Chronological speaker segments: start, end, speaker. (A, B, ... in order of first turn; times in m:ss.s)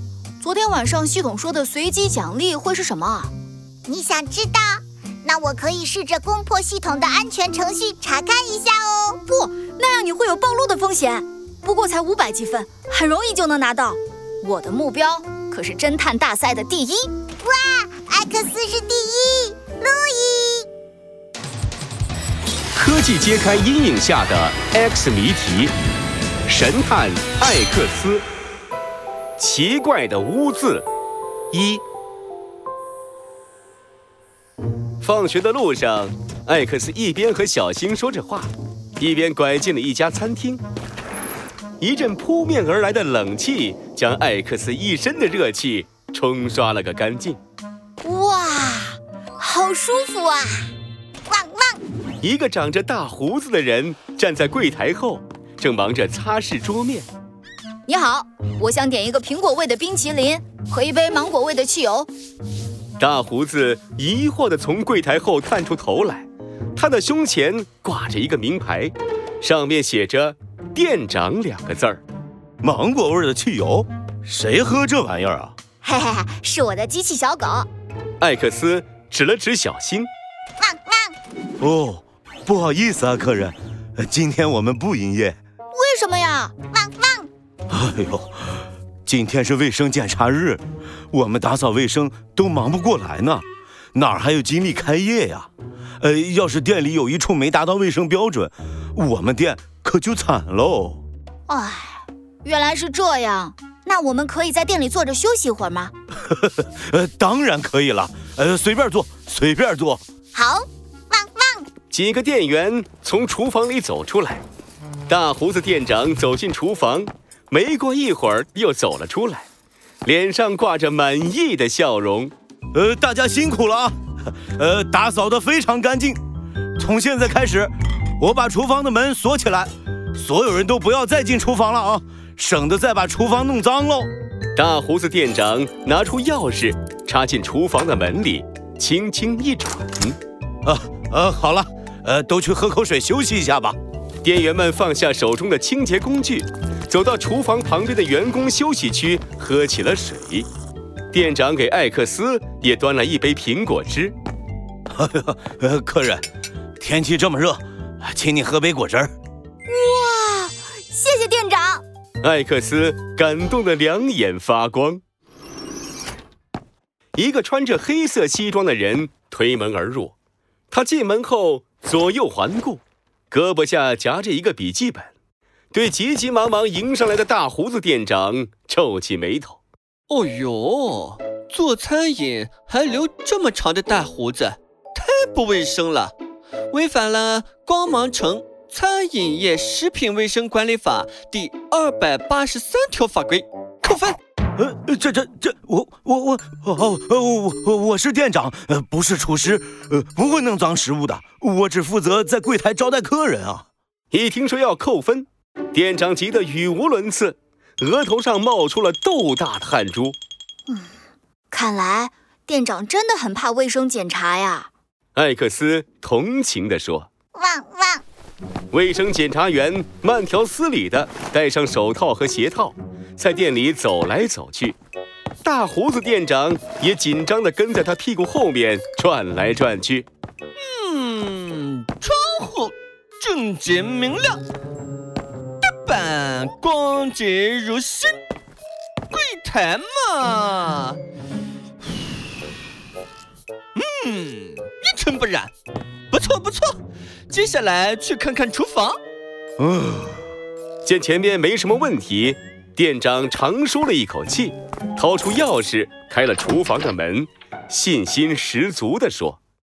0:00.4-0:03.3 A
0:03.8-0:09.2 B
0:09.2-0:17.1 A
0:17.4-0:20.7 B
0:22.7-0:25.7 C
0:26.4-0:28.2 C
0:29.4-0:30.8 C
0:31.5-0:31.8 C
0:35.0-0:40.6 C
0:41.8-0:47.4 C
0:48.0-0:50.7 A
0:51.3-0:51.8 B
0:52.2-0:57.1 C
0:57.8-1:02.1 A
1:03.0-1:12.0 C
1:12.6-1:15.5 D
1:15.8-1:17.7 A
1:18.2-1:20.1 C
1:20.6-1:21.1 B
1:21.6-1:25.4 D
1:25.7-1:26.5 A
1:26.7-1:27.3 B
1:27.7-1:28.4 D
1:29.0-1:35.5 D
1:36.0-1:41.0 D
1:41.5-1:45.9 A
1:46.3-1:50.0 D
1:50.3-1:51.7 B
1:51.9-1:54.4 C
1:55.1-1:59.4 C
2:00.0-2:02.3 C
2:02.7-2:06.2 D
2:06.8-2:14.1 D
2:14.6-2:20.2 C
2:20.6-2:23.8 D
2:24.2-2:30.5 C
2:31.1-2:34.1 C
2:34.9-2:36.2 D
2:36.8-2:39.1 D
2:39.7-2:41.8 A
2:42.2-2:45.0 C
2:47.1-2:50.1 C
2:50.7-2:55.1 C
2:55.7-2:59.6 C
3:00.1-3:06.1 E
3:06.7-3:14.2 E
3:14.6-3:23.6 D
3:24.1-3:30.2 C
3:31.5-3:34.7 A
3:35.1-3:37.1 C
3:37.3-3:38.0 B
3:38.7-3:44.8 C
3:45.4-3:50.0 C
3:50.6-3:54.4 E
3:55.6-3:58.2 E
3:59.1-4:01.0 E
4:03.8-4:05.5 E
4:06.1-4:09.0 E
4:09.6-4:10.2 D
4:10.8-4:19.4 C